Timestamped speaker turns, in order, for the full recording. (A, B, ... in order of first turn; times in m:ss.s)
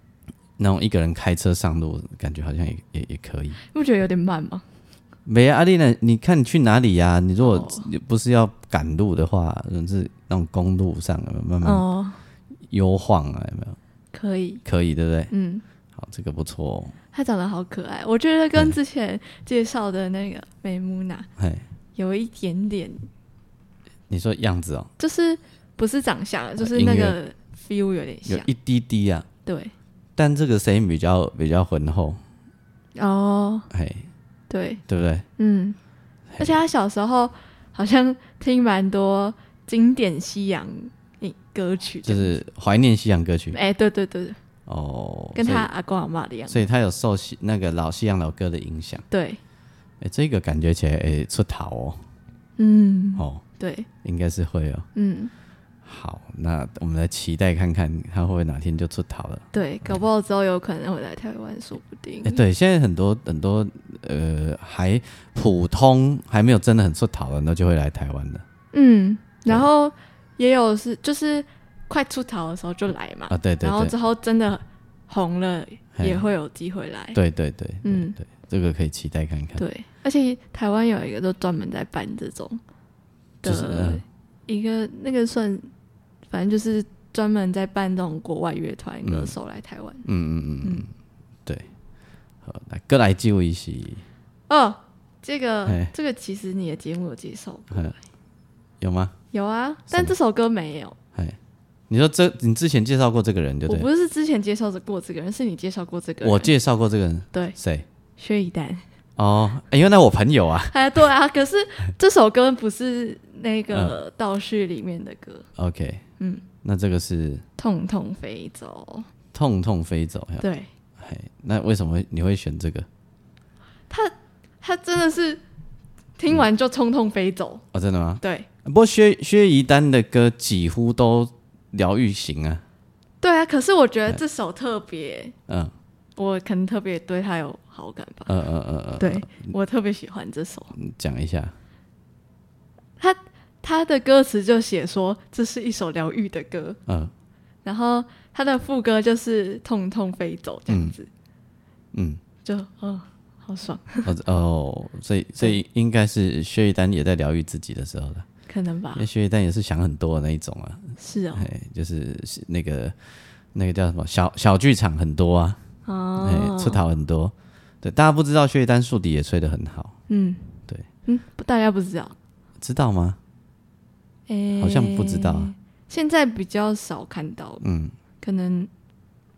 0:00.6-0:03.6 A
0:03.7-0:04.6 B
0:05.3-0:11.8 A
0:07.4-0:07.9 B
0:11.6-0:12.2 B
0:12.7-0:13.8 A
0:14.1-0:14.6 B
0:14.6-0:15.3 A
0:15.3-0:15.6 B
0:16.0-0:17.0 A
0:17.1-0:21.3 B
0:21.4-0:21.6 A
0:22.0-0:23.1 B
0:24.1-0:24.9 A
0:25.0-0:28.5 B
0:26.6-0:27.2 A
0:28.3-0:29.3 A
0:29.5-0:29.7 B
0:30.2-0:32.2 A
0:33.0-0:33.7 B
0:33.7-0:34.1 A
0:34.5-0:34.8 B
0:34.9-0:35.3 A
0:35.4-0:35.8 B
0:36.3-0:36.6 A
0:36.4-0:42.4 B
0:42.0-0:43.6 A
0:43.5-0:44.4 B
0:44.7-0:45.7 A
0:45.4-0:46.6 B
0:46.5-0:49.0 A
0:49.1-0:49.4 B
0:50.0-0:52.0 A
0:52.6-0:53.9 B
0:53.2-0:53.4 A
0:54.0-0:54.9 A
0:55.0-0:55.3 B
0:55.8-0:59.5 A
0:59.5-1:02.4 B
1:02.2-1:08.4 A
1:08.7-1:17.2 B
1:13.3-1:13.9 A
1:17.1-1:19.6 A
1:17.8-1:18.2 B
1:19.6-1:22.6 B
1:23.4-1:25.7 B
1:23.4-1:24.0 A
1:26.3-1:30.0 B
1:29.0-1:29.4 A
1:30.0-1:30.9 A
1:30.6-1:30.9 B
1:32.4-1:34.0 A
1:34.5-1:38.0 B
1:35.7-1:35.9 A
1:38.8-1:39.2 A
1:39.3-1:41.0 B
1:41.9-1:43.9 A
1:43.7-1:46.5 B
1:46.2-1:47.9 A
1:48.2-1:48.8 B
1:49.2-1:50.8 A
1:50.7-1:55.5 B
1:55.6-1:56.0 A
1:56.2-1:56.4 B
1:56.6-1:57.4 A
1:57.6-1:59.1 B
1:59.3-2:00.4 A
2:00.4-2:00.7 B
2:01.0-2:02.9 A
2:03.9-2:05.4 B
2:06.2-2:07.6 B
2:07.7-2:12.6 A
2:08.2-2:08.5 B
2:13.2-2:15.4 B
2:15.5-2:15.7 A
2:16.2-2:18.3 B
2:18.3-2:19.5 A
2:19.0-2:20.8 B
2:20.8-2:21.6 A
2:23.0-2:26.8 B
2:26.9-2:27.1 A
2:27.6-2:31.1 B
2:30.7-2:31.0 A
2:31.9-2:32.2 A
2:32.4-2:34.1 B
2:34.0-2:38.3 A
2:38.5-2:39.1 B
2:39.0-2:43.0 A
2:41.0-2:41.5 B
2:43.5-2:45.6 A
2:45.9-2:46.8 B
2:46.2-2:50.0 A
2:50.1-2:52.2 B
2:52.6-2:53.2 A
2:54.3-2:57.6 B
2:54.6-2:55.5 A
2:57.6-2:58.0 A
2:58.2-2:58.7 B